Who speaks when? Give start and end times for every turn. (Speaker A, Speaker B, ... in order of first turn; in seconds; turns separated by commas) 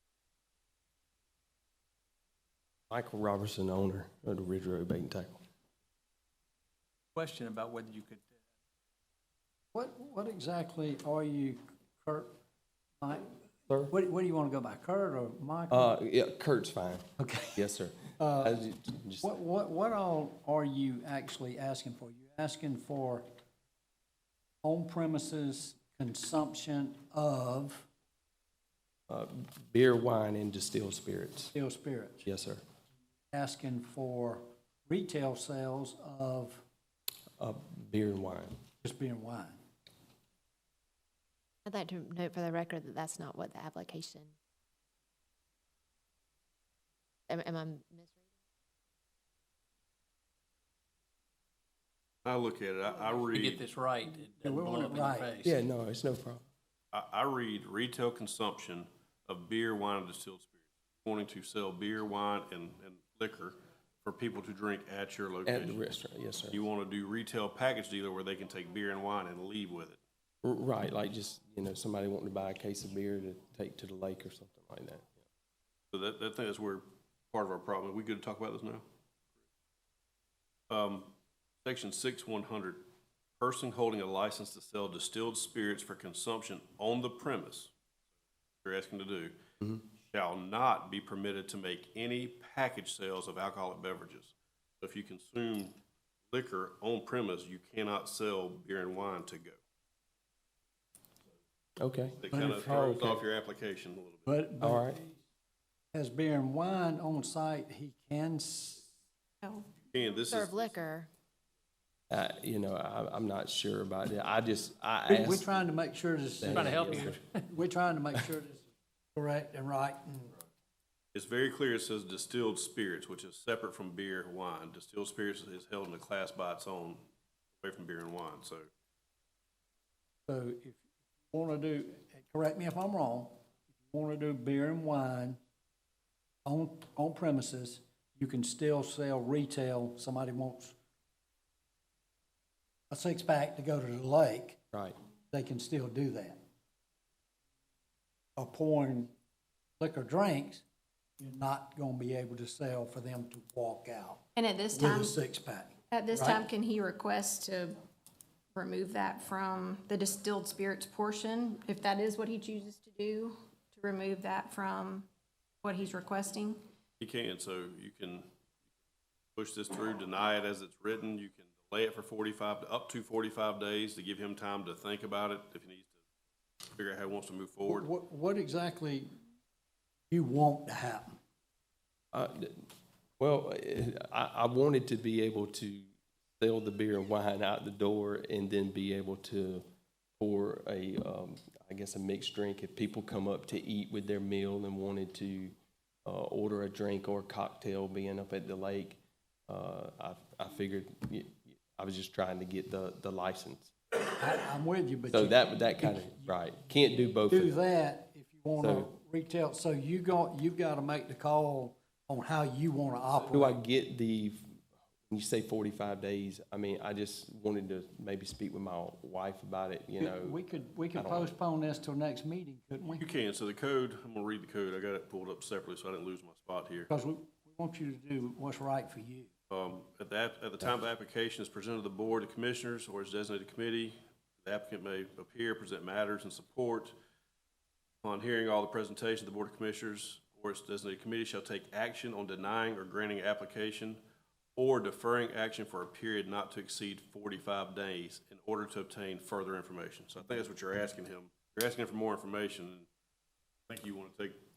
Speaker A: 2.9-5.4, Speaker B: 7.2-8.2, Speaker C: 9.7-12.3, Speaker C: 13.0-13.3, Speaker A: 13.7-13.9, Speaker C: 13.9-15.9, Speaker A: 15.7-17.0, Speaker C: 17.2-17.6, Speaker A: 17.6-19.3, Speaker C: 18.2-18.6, Speaker C: 19.2-23.3, Speaker C: 24.6-27.9, Speaker A: 29.1-31.5, Speaker C: 31.5-32.3, Speaker A: 32.2-32.6, Speaker C: 33.3-36.6, Speaker A: 37.4-38.6, Speaker C: 38.8-39.6, Speaker D: 41.7-44.3, Speaker D: 47.3-48.1, Speaker E: 52.2-53.6, Speaker B: 53.0-55.6, Speaker C: 54.4-55.3, Speaker A: 55.4-56.5, Speaker E: 56.9-65.8, Speaker A: 65.5-66.6, Speaker E: 66.5-70.0, Speaker A: 70.4-75.2, Speaker E: 75.9-78.8, Speaker E: 80.7-81.1, Speaker E: 81.6-82.8, Speaker E: 83.4-87.7, Speaker E: 88.6-89.4, Speaker E: 90.1-95.7, Speaker E: 96.3-99.6, Speaker A: 101.8-102.8, Speaker E: 102.2-104.3, Speaker C: 102.3-103.2, Speaker C: 104.2-105.2, Speaker A: 104.6-105.0, Speaker C: 105.9-108.9, Speaker F: 109.4-109.7, Speaker E: 109.9-110.7, Speaker D: 110.3-111.1, Speaker A: 112.1-115.5, Speaker C: 115.1-120.4, Speaker A: 116.4-117.2, Speaker B: 116.5-117.2, Speaker E: 121.1-127.0, Speaker E: 127.6-128.7, Speaker C: 130.3-130.8, Speaker C: 131.3-135.4, Speaker C: 136.4-140.8, Speaker C: 142.9-144.6, Speaker C: 145.3-146.4, Speaker C: 148.3-149.1, Speaker C: 149.8-150.6, Speaker C: 151.2-156.4, Speaker F: 154.3-155.1, Speaker F: 155.9-157.8, Speaker F: 158.5-165.1, Speaker F: 165.6-166.6, Speaker E: 167.0-168.2, Speaker E: 169.3-175.9, Speaker E: 176.7-177.9, Speaker C: 177.7-179.1, Speaker C: 180.1-181.1, Speaker A: 182.1-182.6, Speaker A: 183.2-189.6, Speaker A: 190.2-203.7, Speaker C: 204.1-206.3, Speaker A: 205.1-207.6, Speaker C: 207.3-213.6, Speaker A: 208.6-208.9, Speaker A: 213.2-221.3, Speaker C: 220.0-223.1, Speaker E: 223.0-226.9, Speaker C: 226.9-229.3, Speaker E: 229.5-236.9, Speaker E: 238.0-244.0, Speaker E: 244.6-252.9, Speaker E: 253.7-254.4